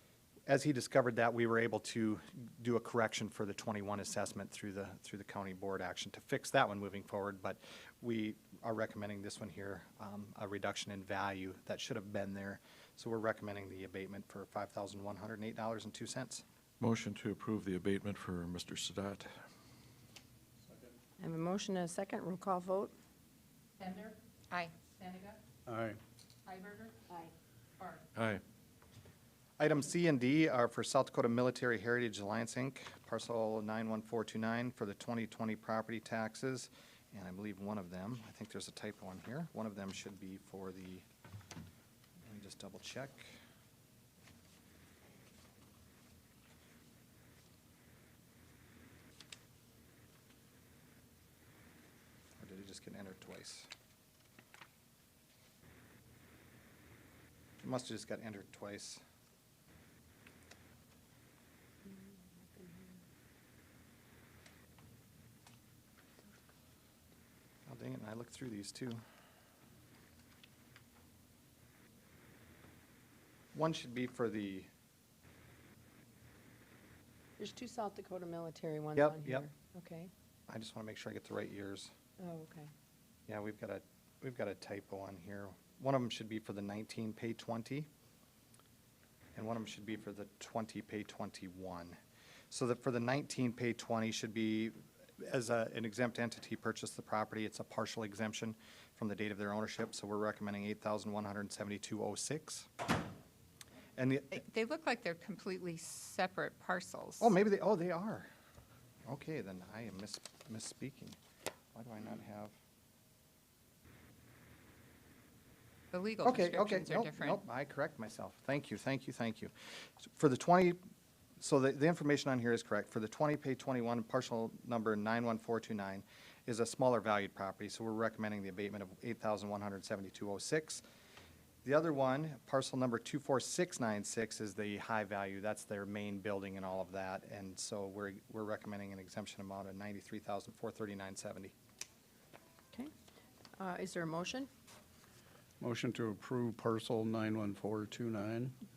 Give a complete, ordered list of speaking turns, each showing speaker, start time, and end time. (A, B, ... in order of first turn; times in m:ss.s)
0:00.5-0:16.4 A
0:16.8-0:19.3 B
0:21.2-0:22.9 C
0:25.7-0:26.0 D
0:26.6-0:27.3 C
0:28.1-0:28.4 B
0:29.6-0:41.0 A
0:42.2-0:43.3 A
0:52.4-0:53.7 A
0:57.6-0:59.0 A
1:01.9-1:02.9 C
1:07.7-1:09.0 A
1:13.5-1:14.7 A
1:17.4-1:20.1 C
1:19.0-1:19.4 A
1:20.5-1:21.9 A
1:22.2-1:22.7 C
1:23.3-1:27.9 A
1:29.3-1:32.0 A
1:32.5-1:42.7 A
1:44.0-1:44.4 A
1:44.3-1:47.3 E
1:47.2-1:48.3 A
1:49.0-1:51.2 A
1:51.7-1:52.5 A
1:55.9-1:57.4 E
1:56.2-2:00.8 A
2:01.4-2:10.8 A
2:11.6-2:21.5 A
2:23.6-2:24.5 C
2:25.6-2:28.5 D